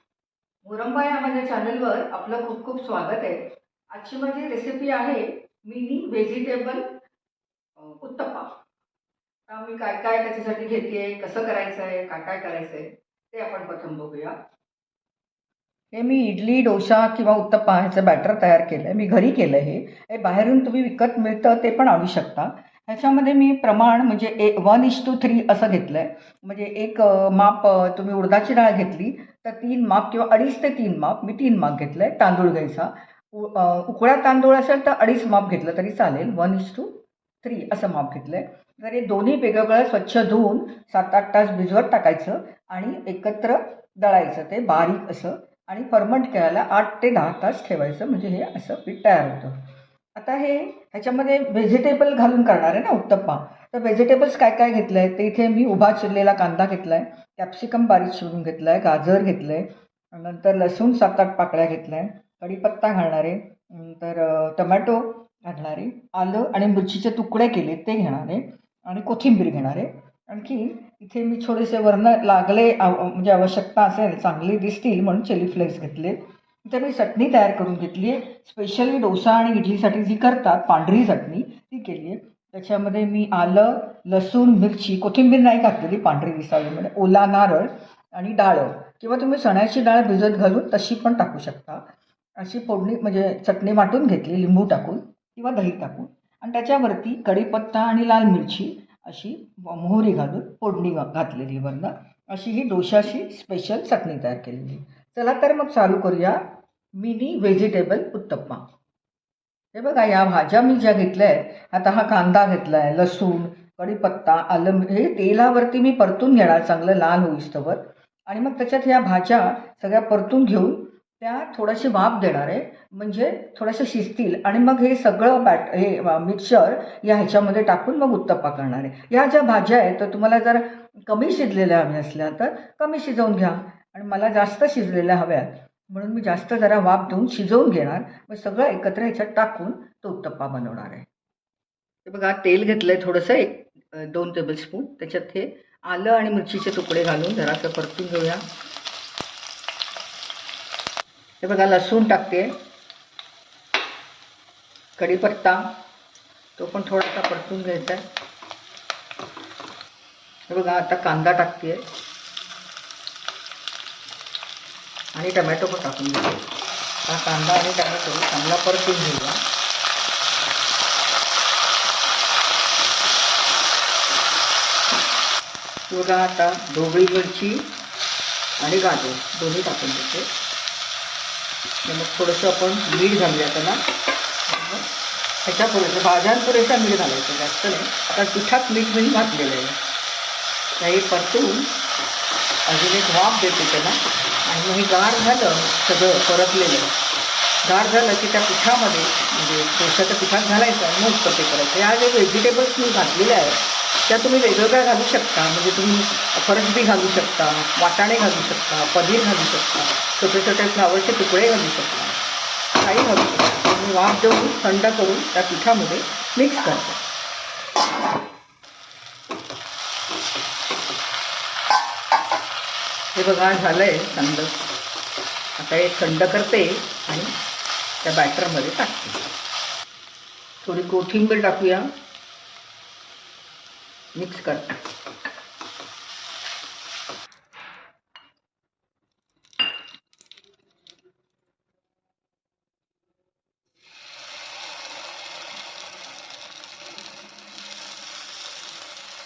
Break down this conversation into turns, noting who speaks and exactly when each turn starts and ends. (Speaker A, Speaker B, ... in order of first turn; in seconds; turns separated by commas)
Speaker A: 0.6-6.9, Speaker A: 7.8-8.6, Speaker A: 9.5-14.4, Speaker A: 15.9-49.6, Speaker A: 50.1-91.8, Speaker A: 92.4-108.6, Speaker A: 109.7-141.1, Speaker A: 142.1-148.4, Speaker A: 151.4-152.5, Speaker A: 155.0-155.7, Speaker A: 156.6-158.0, Speaker A: 160.5-161.8, Speaker A: 165.1-166.5, Speaker A: 167.1-169.4, Speaker A: 175.9-177.7, Speaker A: 178.6-180.3, Speaker A: 181.8-183.8, Speaker A: 184.5-184.8, Speaker A: 185.4-189.8, Speaker A: 190.8-191.7, Speaker A: 192.7-196.9, Speaker A: 197.6-212.2, Speaker A: 212.8-217.0, Speaker A: 223.1-224.6, Speaker A: 225.6-227.3, Speaker A: 228.0-229.2, Speaker A: 230.6-231.9, Speaker A: 234.1-234.8